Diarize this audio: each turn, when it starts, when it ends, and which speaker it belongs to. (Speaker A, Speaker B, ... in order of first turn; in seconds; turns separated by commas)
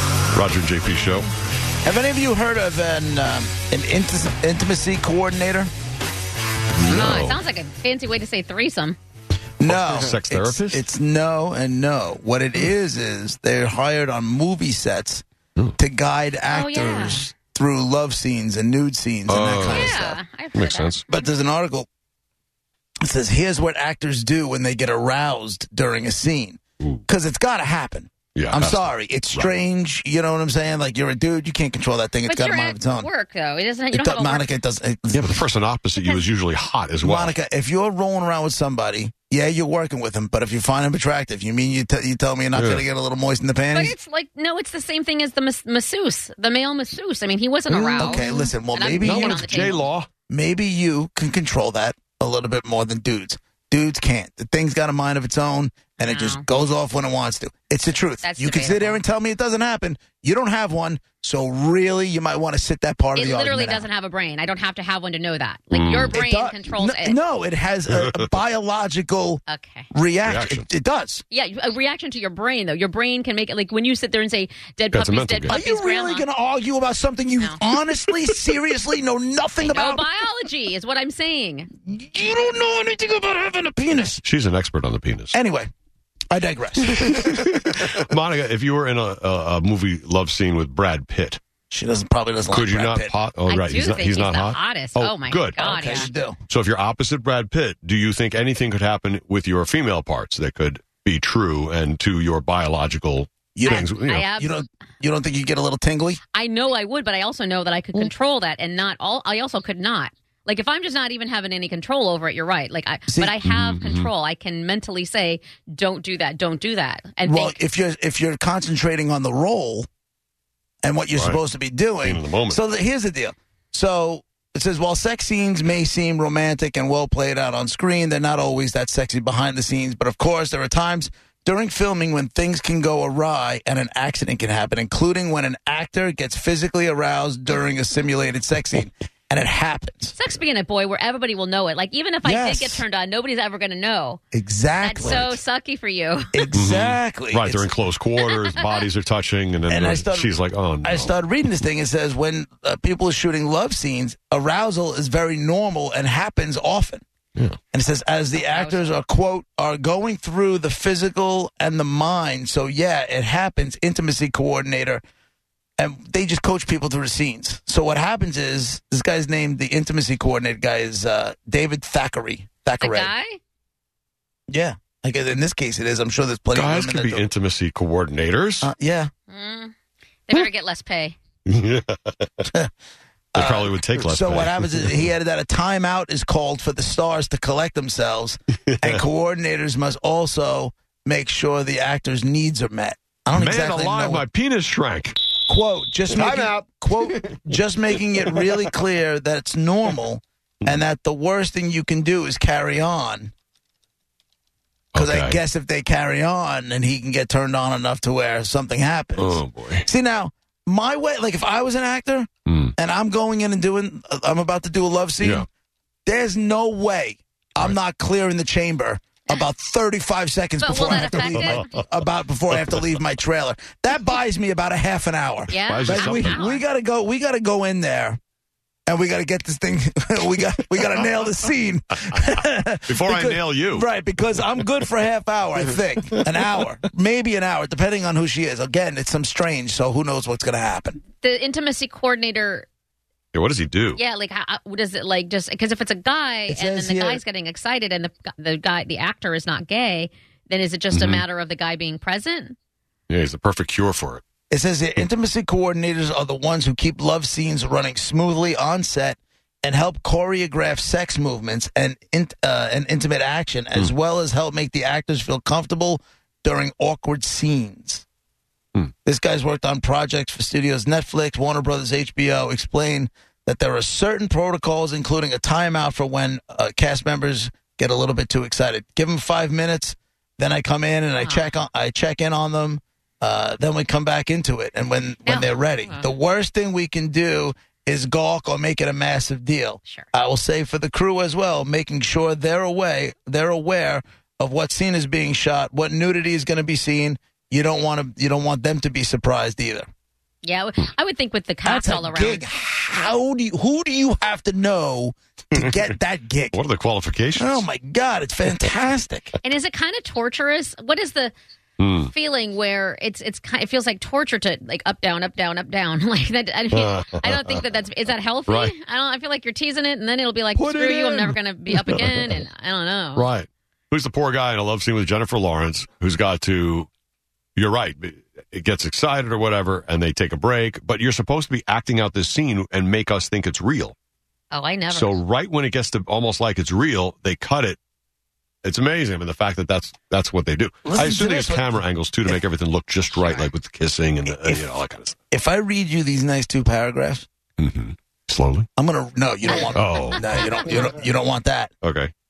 Speaker A: 0.3-1.3, Speaker B: 1.8-5.7, Speaker A: 6.8-7.4, Speaker C: 6.9-9.0, Speaker B: 9.6-15.2, Speaker A: 9.7-10.8, Speaker B: 15.8-20.2, Speaker C: 16.5-17.2, Speaker A: 19.3-21.1, Speaker C: 19.7-21.3, Speaker B: 21.1-21.9, Speaker B: 23.0-33.1, Speaker A: 28.4-29.5, Speaker C: 32.3-34.5, Speaker B: 33.9-35.4, Speaker A: 35.1-37.3, Speaker B: 37.0-44.0, Speaker A: 42.5-42.9, Speaker C: 43.7-49.9, Speaker A: 47.7-48.5, Speaker B: 48.0-49.7, Speaker A: 49.0-50.1, Speaker B: 50.3-63.9, Speaker C: 56.0-56.5, Speaker C: 58.2-59.0, Speaker C: 63.1-67.2, Speaker A: 65.7-66.2, Speaker B: 66.1-69.4, Speaker C: 69.5-69.9, Speaker B: 69.9-71.2, Speaker A: 70.2-70.7, Speaker C: 71.3-76.2, Speaker A: 74.9-75.6, Speaker B: 75.5-80.0, Speaker C: 79.6-81.7, Speaker B: 81.9-84.2, Speaker A: 84.2-85.3, Speaker B: 85.3-85.7, Speaker B: 86.3-87.4, Speaker A: 86.9-91.4, Speaker B: 91.7-93.1, Speaker A: 92.5-95.8, Speaker C: 93.5-96.1, Speaker B: 95.6-96.4, Speaker A: 96.5-104.3, Speaker B: 103.5-106.2, Speaker C: 103.7-104.6, Speaker C: 106.3-117.6, Speaker B: 113.1-113.4, Speaker A: 113.4-114.1, Speaker B: 117.2-119.9, Speaker B: 120.8-140.2, Speaker A: 121.2-121.4, Speaker A: 122.0-122.6, Speaker C: 140.2-144.2, Speaker B: 142.2-142.8, Speaker B: 144.3-145.3, Speaker C: 144.8-146.5, Speaker A: 145.0-145.4, Speaker B: 146.3-147.7, Speaker A: 146.5-151.2, Speaker B: 149.7-150.3, Speaker B: 150.8-157.0, Speaker B: 157.7-165.0, Speaker C: 158.3-159.0, Speaker B: 165.8-173.1, Speaker C: 172.8-173.4, Speaker B: 174.5-177.2, Speaker A: 176.5-178.7, Speaker B: 178.6-179.1, Speaker C: 179.3-179.7, Speaker C: 180.3-181.2, Speaker A: 181.5-182.5, Speaker B: 183.3-194.2, Speaker A: 183.4-184.9, Speaker A: 193.3-195.2, Speaker B: 195.5-203.3, Speaker A: 196.2-196.5, Speaker A: 204.9-205.4, Speaker B: 205.0-215.5, Speaker A: 209.2-209.9, Speaker A: 212.5-212.7, Speaker A: 215.2-215.5, Speaker B: 216.1-228.2, Speaker C: 220.6-221.7, Speaker A: 220.9-221.8, Speaker C: 225.5-226.6, Speaker A: 225.7-226.4, Speaker B: 228.9-241.0, Speaker A: 232.9-233.9, Speaker C: 241.2-242.7, Speaker A: 243.3-244.0, Speaker C: 244.0-252.6, Speaker B: 246.5-247.2, Speaker A: 250.9-251.2, Speaker A: 253.1-254.2, Speaker B: 254.5-268.1, Speaker B: 269.1-299.9, Speaker C: 281.2-281.6, Speaker C: 285.3-286.1, Speaker C: 300.4-302.5, Speaker B: 301.6-306.6, Speaker A: 305.6-305.9, Speaker A: 306.5-307.7, Speaker B: 307.4-309.4, Speaker C: 309.4-311.3, Speaker A: 311.8-312.1, Speaker C: 312.1-323.3, Speaker A: 316.7-317.6, Speaker A: 318.5-318.7, Speaker A: 320.6-322.4, Speaker B: 320.6-321.0, Speaker A: 323.2-326.9, Speaker A: 327.6-333.9, Speaker C: 334.5-335.2, Speaker A: 334.9-337.8, Speaker A: 338.6-345.2, Speaker B: 340.9-342.4, Speaker B: 344.4-344.7, Speaker B: 345.3-347.3, Speaker A: 347.6-348.7, Speaker B: 348.8-351.7, Speaker A: 349.7-350.7, Speaker A: 351.8-352.1